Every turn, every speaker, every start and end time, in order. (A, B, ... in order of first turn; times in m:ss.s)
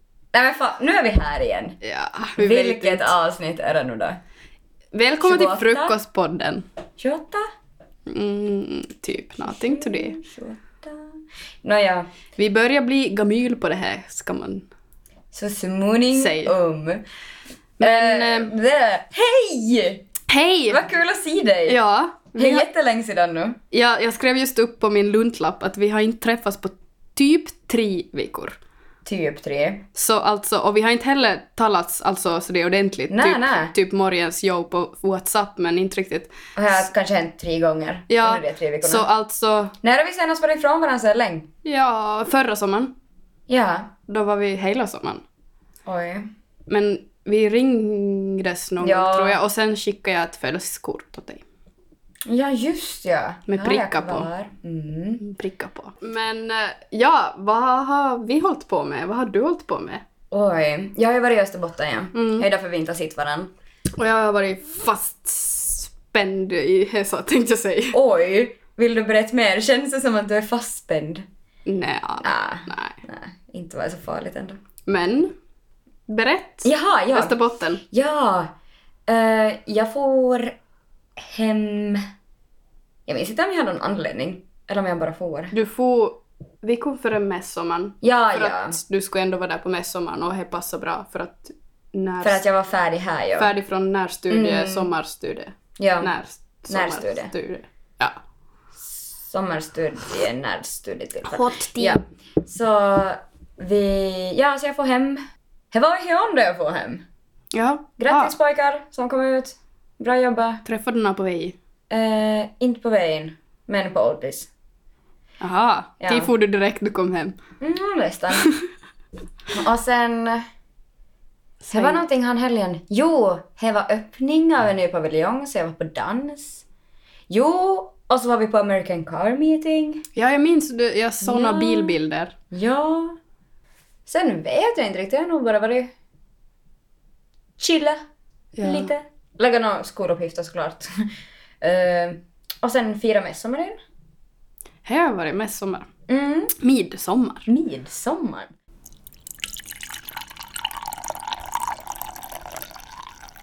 0:00.3-0:01.8 A
0:01.8-0:03.1 B
0:02.4-0:04.2 A
0:04.9-0:06.6 B
0:05.2-0:05.9 A
0:07.0-0:07.4 A
0:08.1-0:10.2 B
0:09.4-0:12.1 A
0:12.4-0:14.7 B
0:15.3-0:17.0 A
0:16.1-0:16.5 B
0:17.8-0:18.5 B
0:17.8-0:20.0 A
0:20.3-0:20.8 B
0:20.7-0:21.8 A
0:21.7-0:22.7 B
0:22.3-0:23.6 A
0:23.7-0:28.6 B
0:29.0-0:29.8 A
0:29.9-0:36.3 B
0:33.1-0:33.7 A
0:36.6-0:39.1 A
0:38.1-0:39.7 B
0:39.8-0:41.5 A
0:41.6-0:42.9 B
0:43.5-0:43.9 A
0:44.1-0:45.2 B
0:45.8-0:46.3 A
0:46.7-0:51.4 B
0:48.8-0:49.4 A
0:52.2-0:55.2 A
0:53.5-0:54.3 B
0:55.2-1:00.0 B
1:00.3-1:03.5 A
1:02.1-1:02.4 B
1:04.0-1:08.0 B
1:07.9-1:11.2 A
1:11.6-1:13.0 B
1:12.2-1:14.6 A
1:14.8-1:15.3 B
1:16.1-1:17.8 B
1:16.6-1:17.4 A
1:17.9-1:18.5 A
1:19.1-1:20.6 A
1:21.2-1:22.0 A
1:23.1-1:25.5 A
1:25.5-1:32.4 B
1:28.0-1:28.8 A
1:32.2-1:33.5 A
1:33.4-1:38.2 B
1:34.3-1:34.9 A
1:35.8-1:36.1 A
1:36.7-1:37.3 A
1:38.8-1:45.2 A
1:41.2-1:42.0 B
1:45.7-1:47.0 A
1:47.5-1:48.3 B
1:48.0-1:50.6 A
1:50.6-1:51.6 B
1:51.9-1:54.5 A
1:55.4-1:57.3 B
1:56.0-1:56.3 A
1:57.6-1:58.4 A
1:59.5-2:00.4 A
2:01.6-2:02.0 B
2:01.7-2:06.6 A
2:07.3-2:10.0 A
2:10.2-2:12.3 B
2:11.2-2:11.9 A
2:12.5-2:13.2 A
2:14.1-2:15.9 A
2:17.6-2:18.0 A
2:18.6-2:18.9 B
2:18.6-2:21.1 A
2:21.6-2:23.8 A
2:24.8-2:25.9 B
2:26.1-2:26.5 A
2:26.6-2:27.5 B
2:27.5-2:28.5 A